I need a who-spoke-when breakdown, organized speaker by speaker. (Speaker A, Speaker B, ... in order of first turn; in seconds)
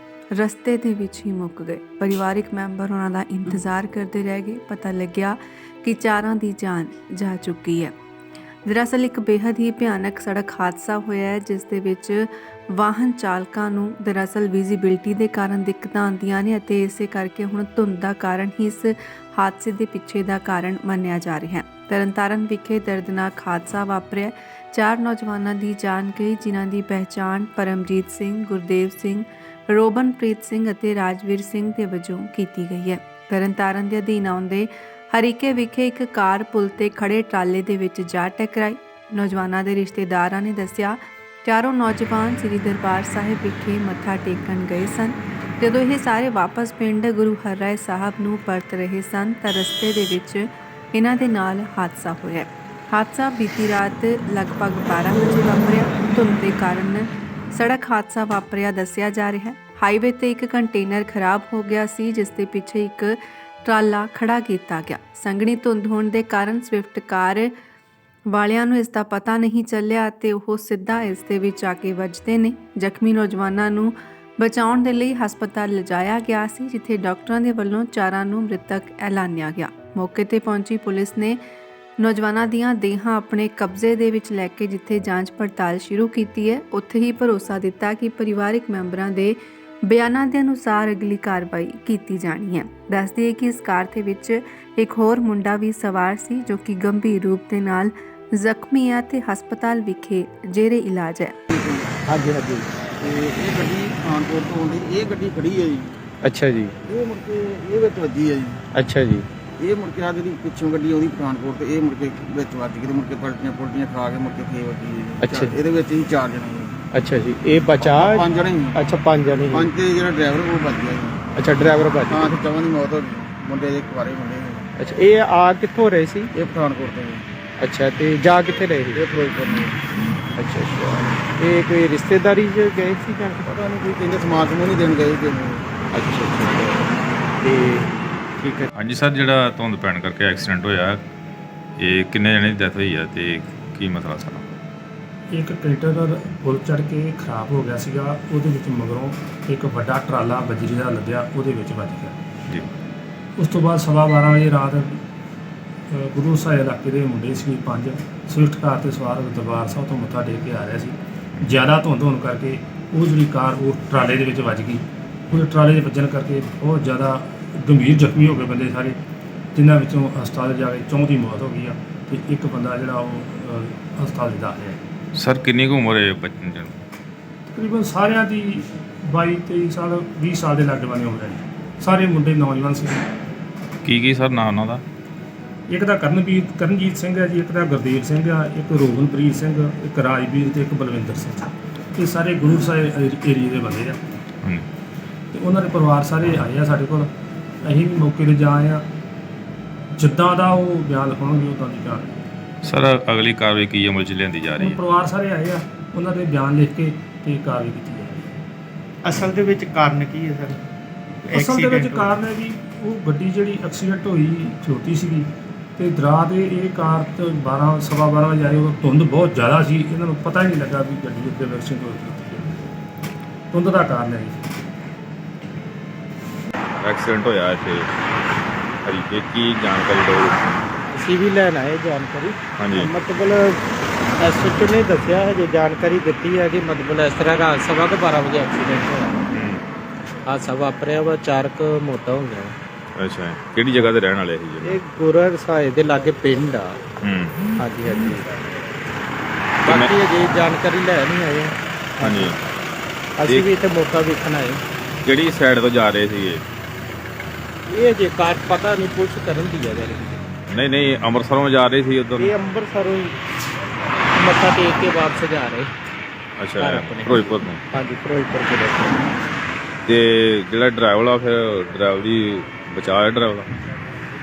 Speaker A: 0.3-7.9, 8.7-67.5, 68.3-81.4, 82.0-101.3
Speaker B: 101.5-102.0, 103.0-106.0, 106.8-108.6, 109.6-116.8, 117.8-118.8, 119.5-121.2, 122.1-124.7, 126.3-127.2, 128.9-129.8, 133.4-135.7
Speaker C: 102.1-102.7, 106.2-106.7, 108.7-109.3, 115.2-115.6, 116.9-119.7, 121.3-122.4, 124.8-126.3, 127.6-129.1, 130.3-133.5, 135.9-136.9, 137.4-137.9, 138.4-138.7, 209.0-210.6, 211.3-212.1, 230.9-233.6, 234.2-239.2, 240.2-242.6, 244.6-246.8, 247.6-248.3, 249.6-252.3, 253.2-254.6, 257.7-260.2, 262.2-263.1, 264.1-265.7, 266.6-269.0
Speaker D: 138.8-141.0, 141.8-144.5, 175.1-176.8, 183.8-184.8, 202.6-204.8, 226.8-227.9, 228.8-230.4, 232.6-232.9, 239.3-239.6, 243.0-244.8, 247.0-247.4, 252.0-252.3, 255.0-256.4, 260.5-262.3, 266.4-267.6, 269.9-273.5
Speaker E: 145.3-152.2, 153.4-155.0, 155.9-169.0, 169.5-174.8, 177.5-183.1, 185.7-194.0, 195.3-197.1, 197.6-198.8, 199.9-202.1, 204.6-208.3, 211.2-222.6, 223.5-224.5